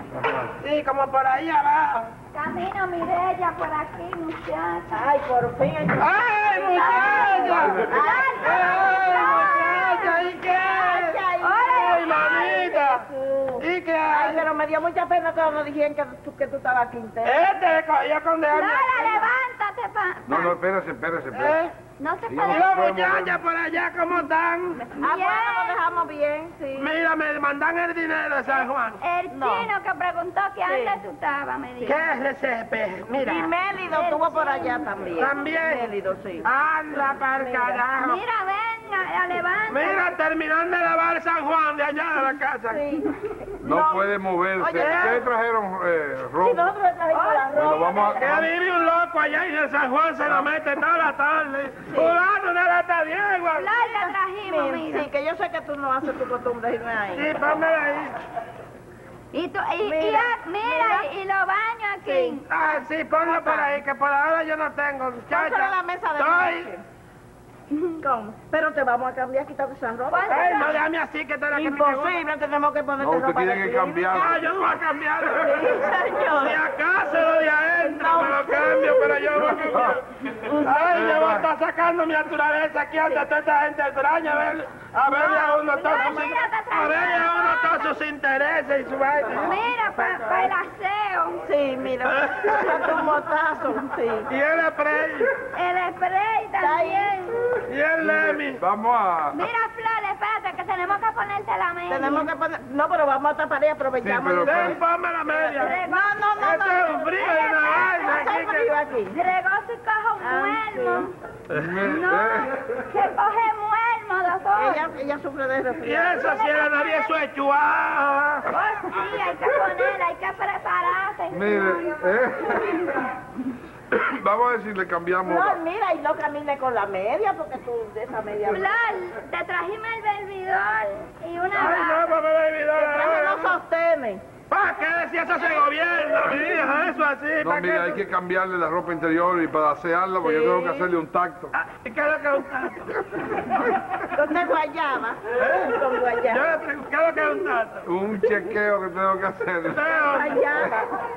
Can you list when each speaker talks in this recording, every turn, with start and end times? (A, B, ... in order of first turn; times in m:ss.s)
0:00.1-0:00.6 A
0:00.6-0:02.1 B
0:02.3-0:05.0 C
0:04.9-0:09.9 D
0:06.0-0:07.9 B
0:06.4-0:10.2 C
0:07.4-0:08.0 A
0:08.4-0:13.0 B
0:10.6-0:17.5 D
0:11.4-0:12.7 C
0:13.6-0:14.5 B
0:17.2-0:19.2 B
0:18.5-0:20.6 C
0:20.3-0:21.6 A
0:21.3-0:21.7 B
0:22.0-0:22.8 C
0:22.3-0:23.4 A
0:22.5-0:24.8 B
0:24.8-0:26.9 D
0:25.0-0:25.8 C
0:26.8-0:29.0 B
0:28.5-0:32.0 C
0:29.3-0:29.7 D
0:30.7-0:31.0 D
0:31.9-0:33.5 B
0:33.2-0:36.5 D
0:33.9-0:34.8 C
0:35.2-0:35.9 B
0:36.4-0:38.2 B
0:37.4-0:37.8 D
0:38.0-0:40.1 C
0:39.7-0:42.8 B
0:42.7-0:43.1 D
0:43.6-0:45.2 D
0:43.6-0:46.7 A
0:44.8-0:45.2 B
0:46.4-0:48.4 D
0:47.1-0:47.8 C
0:47.5-0:48.5 A
0:48.2-0:53.7 B
0:51.9-0:52.2 D
0:53.6-0:55.1 C
0:53.8-0:57.3 D
0:57.1-0:58.2 B
0:59.3-1:02.4 C
0:59.8-1:01.1 D
1:02.0-1:02.4 D
1:02.5-1:06.7 B
1:03.3-1:03.7 D
1:05.3-1:06.8 D
1:07.7-1:10.8 D
1:10.1-1:10.9 C
1:10.3-1:12.2 B
1:11.5-1:14.3 D
1:13.0-1:14.4 A
1:14.1-1:20.0 B
1:15.3-1:16.6 D
1:17.8-1:19.6 D
1:19.7-1:20.0 A
1:20.4-1:20.7 D
1:20.6-1:30.5 B
1:20.6-1:21.5 A
1:25.1-1:27.9 C
1:29.3-1:31.4 C
1:31.4-1:34.3 D
1:32.1-1:32.8 B
1:34.3-1:35.3 B
1:35.5-1:37.4 C
1:36.6-1:37.4 D
1:37.7-1:38.6 B
1:38.0-1:39.4 A
1:39.3-1:42.3 C
1:41.9-1:44.8 D
1:44.0-1:44.8 A
1:44.4-1:45.8 B
1:45.5-1:49.2 D
1:45.6-1:46.1 C
1:46.4-1:48.7 B
1:47.2-1:48.4 C
1:49.1-1:51.1 C
1:50.2-1:51.1 D
1:51.5-1:52.6 A
1:51.8-1:54.8 C
1:54.6-1:56.3 D
1:55.8-1:58.5 B
1:56.2-1:57.1 C
1:58.5-2:02.0 C
2:01.3-2:03.0 A
2:03.9-2:05.6 A
2:05.3-2:08.7 D
2:08.5-2:12.1 C
2:11.5-2:13.6 B
2:12.8-2:14.2 D
2:14.5-2:18.0 B
2:17.4-2:21.5 A
2:20.2-2:20.9 D
2:21.5-2:23.0 B
2:24.1-2:26.6 D
2:26.3-2:27.8 B
2:27.9-2:30.1 A
2:29.7-2:30.9 B
2:30.0-2:30.8 D